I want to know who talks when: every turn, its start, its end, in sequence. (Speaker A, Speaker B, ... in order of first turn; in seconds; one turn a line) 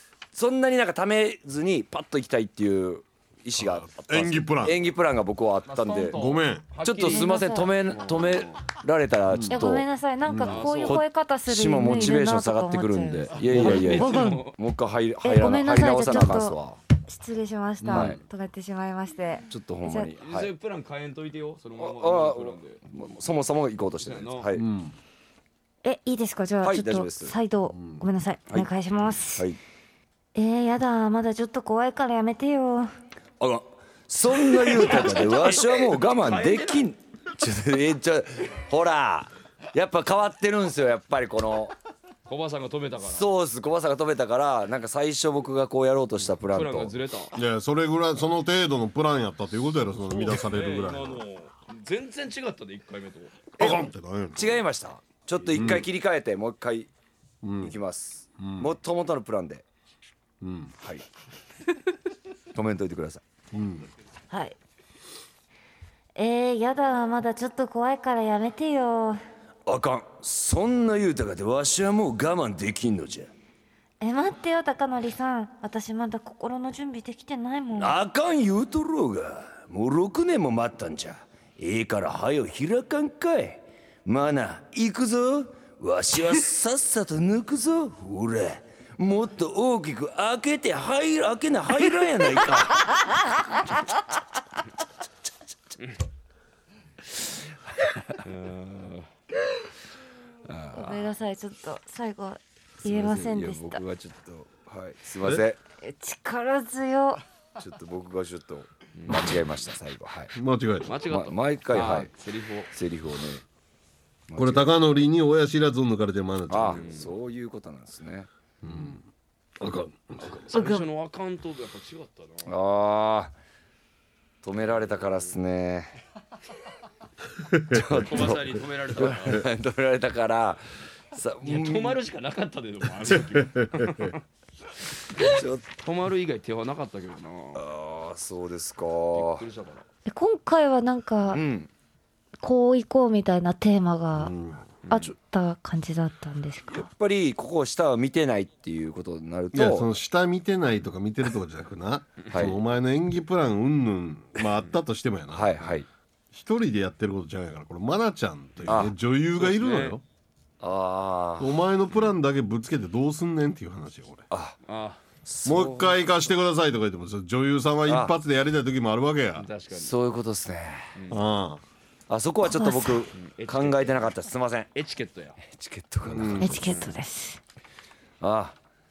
Speaker A: 0.3-6.2
Speaker B: 3.6-4.8
Speaker C: 5.7-8.6
Speaker B: 6.1-6.7
Speaker A: 6.8-16.8
Speaker D: 7.0-7.7
Speaker B: 9.3-9.7
Speaker D: 9.5-14.4
Speaker C: 10.4-11.0
Speaker C: 11.9-12.2
Speaker C: 13.4-14.6
Speaker B: 13.5-14.1
Speaker D: 15.2-20.1
Speaker C: 17.8-18.2
Speaker A: 17.9-18.2
Speaker A: 19.5-20.5
Speaker C: 20.2-22.9
Speaker A: 21.8-24.6
Speaker C: 24.0-24.5
Speaker B: 24.5-24.9
Speaker D: 25.8-29.5
Speaker A: 26.6-27.4
Speaker B: 27.7-28.1
Speaker D: 30.4-32.9
Speaker A: 33.4-41.8
Speaker C: 34.5-36.9
Speaker C: 42.3-43.3
Speaker A: 43.0-47.0
Speaker C: 46.4-47.4
Speaker B: 47.3-51.2
Speaker C: 50.1-53.5
Speaker B: 53.6-54.6
Speaker A: 53.6-56.9
Speaker B: 55.5-55.9
Speaker B: 57.4-57.8
Speaker A: 57.6-59.6
Speaker B: 58.4-58.7
Speaker B: 60.4-60.7
Speaker A: 60.8-61.0
Speaker A: 62.5-63.2
Speaker B: 63.5-63.9
Speaker D: 64.3-64.6
Speaker D: 66.2-69.2
Speaker A: 69.7-73.3
Speaker D: 74.0-78.0
Speaker A: 77.8-93.0
Speaker A: 97.8-98.2
Speaker C: 98.2-99.1
Speaker A: 100.5-101.1
Speaker D: 100.7-103.8
Speaker A: 102.8-105.6
Speaker D: 105.8-107.2
Speaker A: 107.6-110.3
Speaker C: 109.0-109.5
Speaker B: 110.3-110.9
Speaker C: 110.9-112.7
Speaker A: 111.0-112.1
Speaker A: 112.7-113.4
Speaker A: 114.3-114.7
Speaker B: 114.4-116.9
Speaker A: 116.5-118.3
Speaker C: 116.6-117.1
Speaker B: 118.6-119.0
Speaker B: 119.6-120.3
Speaker C: 120.2-122.5
Speaker D: 120.5-120.9
Speaker A: 122.5-123.3
Speaker A: 124.4-125.9
Speaker B: 127.4-128.3
Speaker A: 127.7-132.0
Speaker C: 127.9-129.4
Speaker C: 131.4-134.2
Speaker B: 133.1-134.2
Speaker A: 135.2-135.7
Speaker C: 135.2-137.6
Speaker A: 137.5-139.4
Speaker C: 139.1-139.9
Speaker D: 140.1-141.4
Speaker A: 141.3-141.7
Speaker D: 142.4-144.3
Speaker B: 144.2-144.7
Speaker C: 144.8-145.1
Speaker D: 144.9-146.9
Speaker A: 146.7-149.9
Speaker B: 149.5-155.5
Speaker A: 152.3-152.6
Speaker A: 155.3-155.9
Speaker B: 156.3-160.0
Speaker A: 158.7-158.9
Speaker C: 159.4-160.0
Speaker A: 160.6-161.6
Speaker B: 161.4-164.3
Speaker A: 164.3-164.6
Speaker C: 164.7-165.0
Speaker A: 165.2-166.0
Speaker B: 165.4-169.5
Speaker A: 167.9-168.2
Speaker C: 169.4-170.0
Speaker A: 169.8-170.9
Speaker C: 170.9-171.2
Speaker B: 171.1-171.6
Speaker A: 172.1-174.7
Speaker D: 172.4-173.1
Speaker C: 173.2-174.1
Speaker C: 174.8-175.4
Speaker A: 175.4-176.8
Speaker B: 176.1-176.6
Speaker D: 176.4-177.4
Speaker C: 176.5-176.9
Speaker A: 178.2-178.6